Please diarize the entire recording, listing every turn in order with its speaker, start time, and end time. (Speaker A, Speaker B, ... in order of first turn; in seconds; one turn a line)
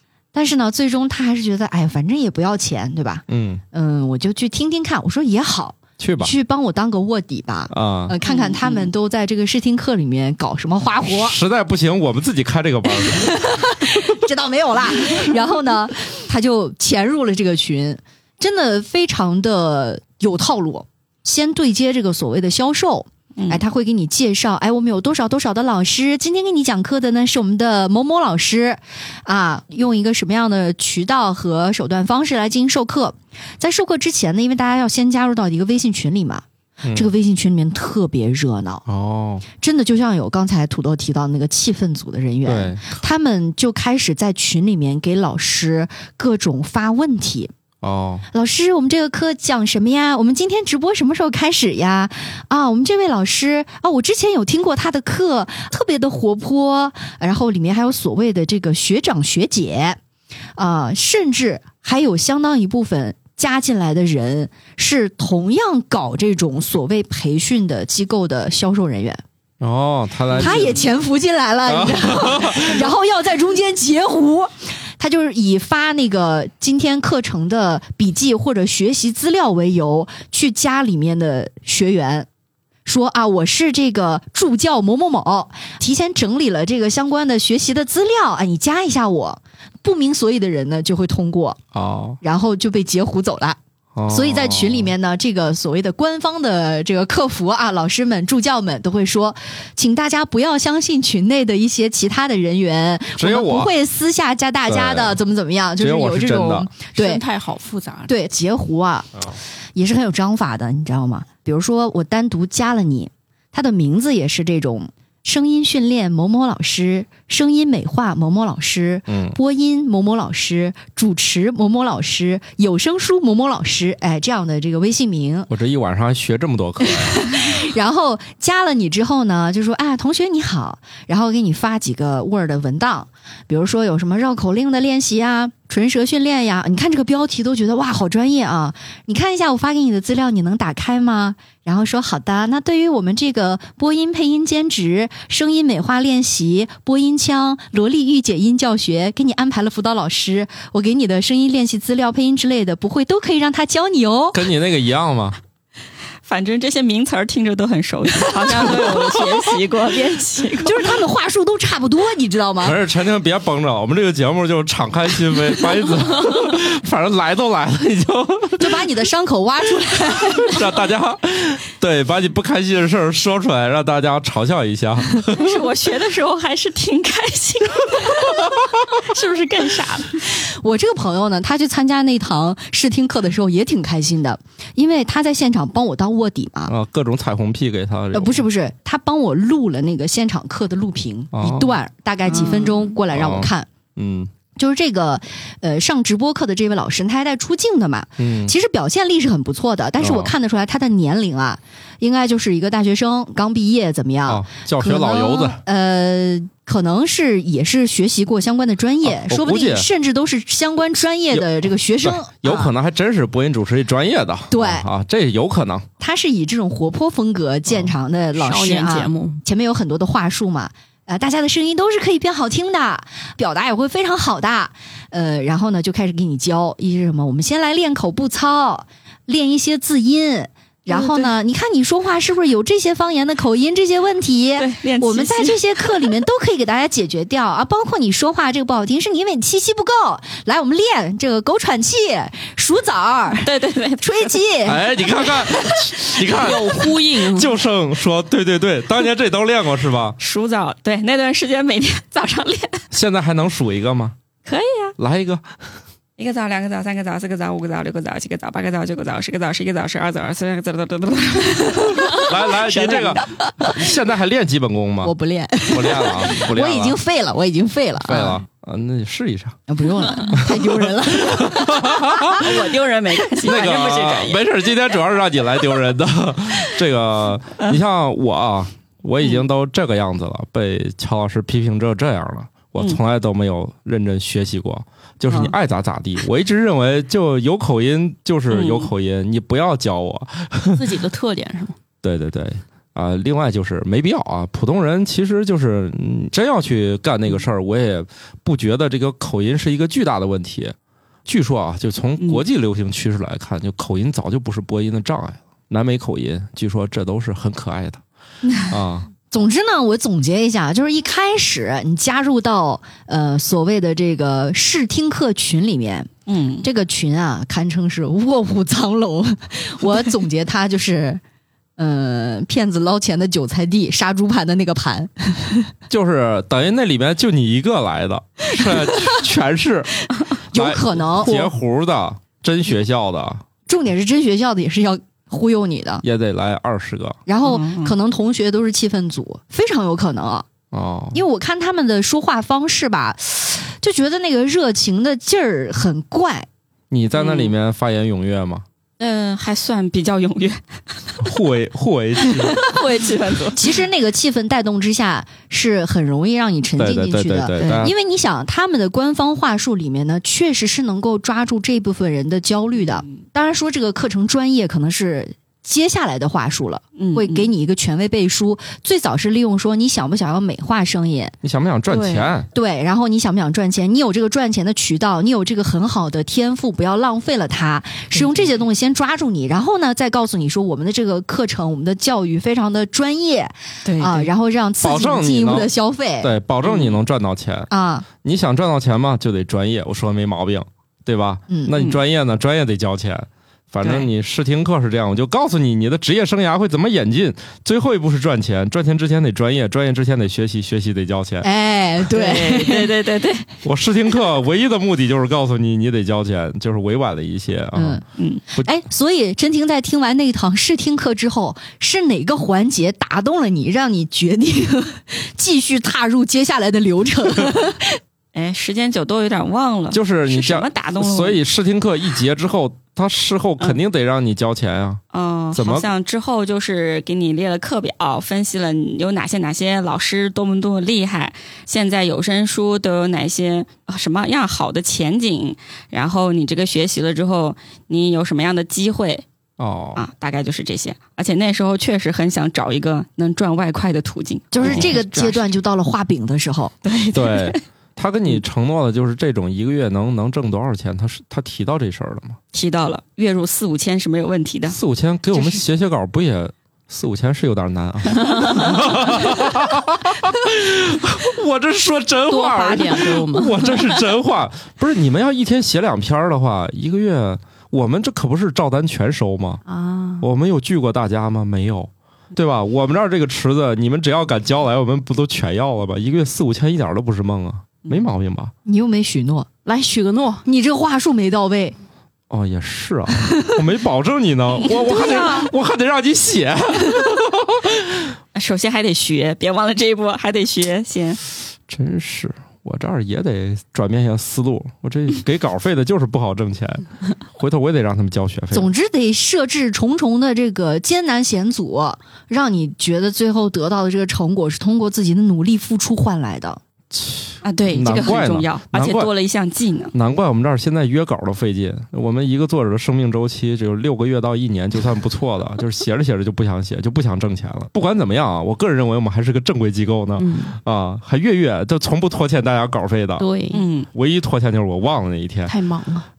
Speaker A: 0.3-11.4
Speaker B: 3.3-3.6
Speaker B: 6.0-6.3
Speaker B: 7.7-8.2
Speaker C: 8.2-8.9
Speaker B: 11.1-13.3
Speaker A: 13.0-38.8
Speaker C: 23.4-23.6
Speaker B: 36.8-37.1
Speaker B: 38.9-39.5
Speaker A: 39.6-47.5
Speaker B: 42.5-43.0
Speaker B: 47.8-48.2
Speaker A: 48.3-60.0
Speaker A: 60.6-69.2
Speaker B: 69.6-70.9
Speaker A: 70.3-82.3
Speaker B: 71.7-72.8
Speaker A: 82.9-91.6
Speaker B: 91.7-92.2
Speaker A: 92.2-107.2
Speaker B: 94.0-94.9
Speaker B: 103.2-103.7
Speaker B: 104.7-105.2
Speaker B: 105.8-106.7
Speaker D: 106.9-108.1
Speaker A: 108.1-109.2
Speaker A: 109.8-125.5
Speaker B: 119.1-119.4
Speaker B: 125.5-127.2
Speaker A: 126.9-154.4
Speaker B: 154.3-155.4
Speaker C: 156.2-161.0
Speaker A: 160.6-162.8
Speaker B: 162.6-168.8
Speaker A: 168.6-170.6
Speaker B: 170.4-175.6
Speaker C: 175.3-180.3
Speaker A: 180.3-186.7
Speaker B: 186.7-188.4
Speaker A: 188.1-193.7
Speaker B: 191.3-191.8
Speaker C: 192.3-192.9
Speaker B: 193.1-194.3
Speaker A: 194.6-212.7
Speaker B: 198.2-198.5
Speaker B: 200.0-200.3
Speaker B: 204.3-205.6
Speaker B: 209.0-209.9
Speaker B: 211.3-215.9
Speaker A: 214.5-214.9
Speaker A: 216.0-243.5
Speaker D: 218.4-219.4
Speaker C: 230.9-231.3
Speaker C: 234.6-236.2
Speaker C: 243.4-244.4
Speaker A: 244.0-244.9
Speaker B: 244.7-250.2
Speaker D: 246.2-247.5
Speaker C: 250.2-252.8
Speaker B: 252.9-254.2
Speaker C: 254.4-255.0
Speaker B: 255.0-255.4
Speaker C: 256.2-263.4
Speaker B: 262.1-265.1
Speaker A: 265.0-268.4
Speaker B: 265.7-267.0
Speaker B: 268.0-269.6
Speaker A: 269.7-272.4
Speaker B: 270.1-272.5
Speaker C: 272.3-274.4
Speaker B: 273.4-290.8
Speaker C: 285.3-285.5
Speaker C: 288.5-288.9
Speaker D: 290.8-291.8
Speaker B: 292.0-300.8
Speaker B: 301.3-308.0
Speaker B: 308.7-309.1
Speaker A: 309.3-316.1
Speaker C: 316.3-316.7
Speaker A: 316.6-321.2
Speaker A: 321.8-325.7
Speaker B: 325.9-329.9
Speaker A: 330.5-331.5
Speaker B: 330.5-333.4
Speaker A: 333.7-336.0
Speaker B: 336.0-337.2
Speaker A: 337.3-340.5
Speaker C: 337.4-337.9
Speaker B: 340.7-341.2
Speaker A: 341.1-346.5
Speaker B: 346.9-348.6
Speaker C: 347.2-347.5
Speaker C: 349.0-351.2
Speaker B: 351.2-352.6
Speaker C: 352.2-353.8
Speaker A: 353.5-371.4
Speaker B: 356.8-357.9
Speaker C: 362.9-363.2
Speaker C: 367.0-367.5
Speaker B: 371.4-372.5
Speaker C: 371.9-372.3
Speaker A: 372.5-386.3
Speaker C: 378.1-378.5
Speaker C: 383.9-384.3
Speaker B: 384.8-385.7
Speaker B: 386.2-387.7
Speaker C: 386.6-387.0
Speaker A: 387.7-388.1
Speaker B: 388.2-401.5
Speaker C: 393.8-394.1
Speaker A: 401.4-402.9
Speaker C: 402.1-403.5
Speaker B: 403.6-408.0
Speaker A: 407.8-408.0
Speaker C: 408.2-408.4
Speaker A: 408.6-418.0
Speaker C: 418.3-421.4
Speaker B: 419.9-425.0
Speaker C: 425.1-439.2
Speaker B: 425.5-425.9
Speaker B: 439.6-440.0
Speaker C: 440.0-445.4
Speaker A: 444.5-446.7
Speaker B: 444.6-444.9
Speaker C: 446.8-447.6
Speaker B: 447.1-452.4
Speaker C: 452.5-454.8
Speaker B: 454.7-469.6
Speaker C: 458.2-458.8
Speaker D: 462.3-463.9
Speaker D: 469.6-470.3
Speaker B: 470.2-478.5
Speaker A: 478.6-479.5
Speaker D: 479.6-480.4
Speaker A: 480.4-481.8
Speaker B: 482.3-488.1
Speaker C: 484.7-485.5
Speaker C: 488.3-491.2
Speaker B: 491.7-498.7
Speaker A: 498.5-506.6
Speaker B: 506.9-509.1
Speaker C: 507.4-509.9
Speaker B: 509.9-523.3
Speaker D: 520.2-520.6
Speaker D: 523.2-523.6
Speaker C: 523.5-523.9
Speaker B: 523.9-525.5
Speaker D: 525.5-526.1